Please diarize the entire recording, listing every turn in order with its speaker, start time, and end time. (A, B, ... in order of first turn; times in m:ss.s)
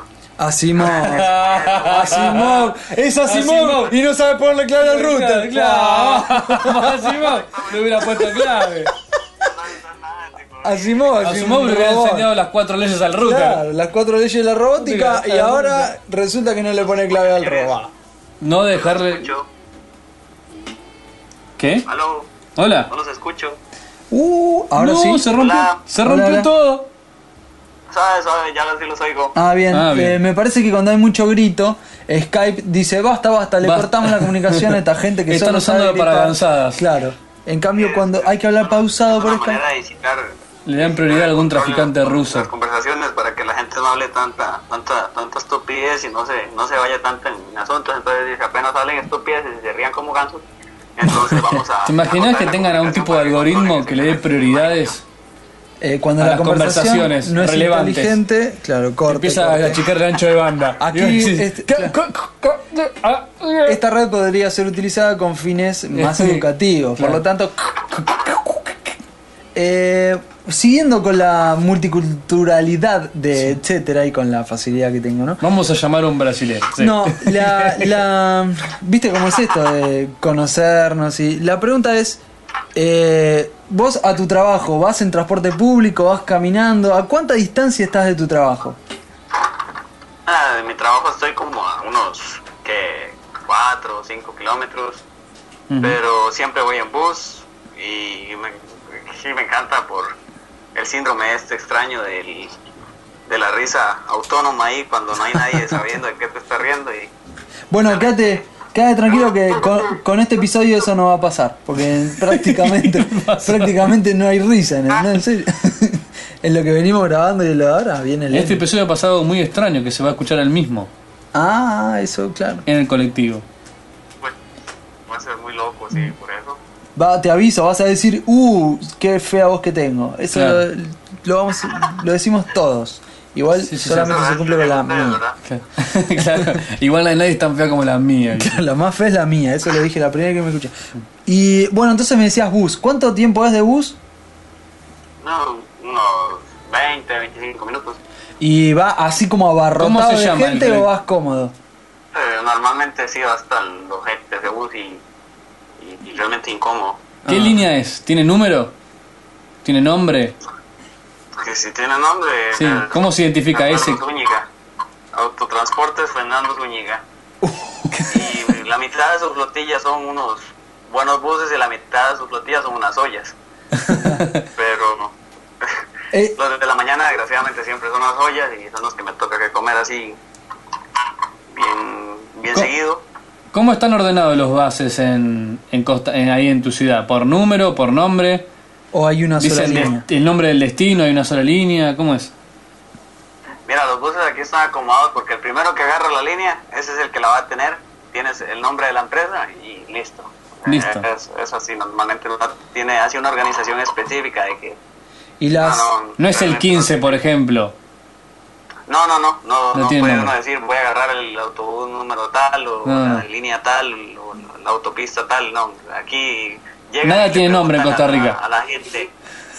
0:00.4-0:07.1 A
0:00.8-0:04.0 B
0:01.0-0:02.5 C
0:04.8-0:08.9 B
0:07.2-0:07.9 C
0:08.1-0:08.7 A
0:09.4-0:11.2 C
0:10.6-0:12.3 A
0:11.2-0:13.6 B
0:13.2-0:17.9 A
0:14.8-0:15.9 B
0:16.8-0:17.8 C
0:18.4-0:19.3 B
0:18.7-0:19.5 C
0:21.6-0:21.9 B
0:21.9-0:23.6 C
0:22.6-0:22.9 B
0:24.1-0:25.3 A
0:24.8-0:26.9 B
0:25.3-0:25.8 C
0:26.0-0:26.5 A
0:27.9-0:29.4 C
0:29.4-0:39.6 A
0:29.7-0:30.2 B
0:33.6-0:36.8 B
0:37.8-0:50.4 C
0:40.7-0:42.5 B
0:51.0-0:55.0 C
0:51.2-0:55.0 B
0:55.8-0:59.8 A
0:56.2-0:58.2 B
0:59.1-1:03.8 B
1:00.8-1:02.0 A
1:03.7-1:08.7 A
1:05.9-1:07.2 B
1:09.6-1:15.4 A
1:15.4-1:18.0 B
1:16.8-1:22.2 A
1:22.8-1:28.8 A
1:30.3-1:35.0 C
1:35.7-1:36.0 B
1:35.8-1:40.2 C
1:40.8-1:42.5 C
1:43.3-1:47.1 C
1:47.7-1:58.6 A
1:52.2-1:53.9 B
1:58.3-2:00.9 B
2:01.3-2:02.7 A
2:02.7-2:03.4 B
2:05.1-2:06.6 C
2:07.0-2:15.2 A
2:10.3-2:10.6 B
2:13.6-2:14.2 B
2:14.0-2:15.4 C
2:15.5-2:18.6 B
2:18.3-2:20.7 A
2:21.2-2:24.0 A
2:25.2-2:28.0 C
2:28.4-2:31.5 A
2:29.8-2:30.9 B
2:32.1-2:35.0 C
2:35.8-2:37.0 C
2:37.2-2:37.6 A
2:37.3-2:38.7 B
2:39.6-2:40.4 B
2:41.4-2:44.5 C
2:42.6-2:44.0 B
2:45.1-2:47.0 C
2:47.4-2:48.1 A
2:48.1-2:53.4 C
2:53.8-2:54.3 A
2:54.1-2:54.4 B
2:54.5-2:55.7 C
2:56.4-3:00.2 C
3:01.5-3:03.0 C
3:03.5-3:08.5 B
3:08.9-3:10.1 A
3:09.4-3:12.3 B
3:13.7-3:24.8 C
3:20.7-3:21.1 B
3:25.4-3:25.9 A
3:25.6-3:27.2 C
3:26.2-3:27.8 B
3:28.9-3:39.1 C
3:29.7-3:30.3 B
3:32.8-3:33.2 B
3:37.0-3:38.4 B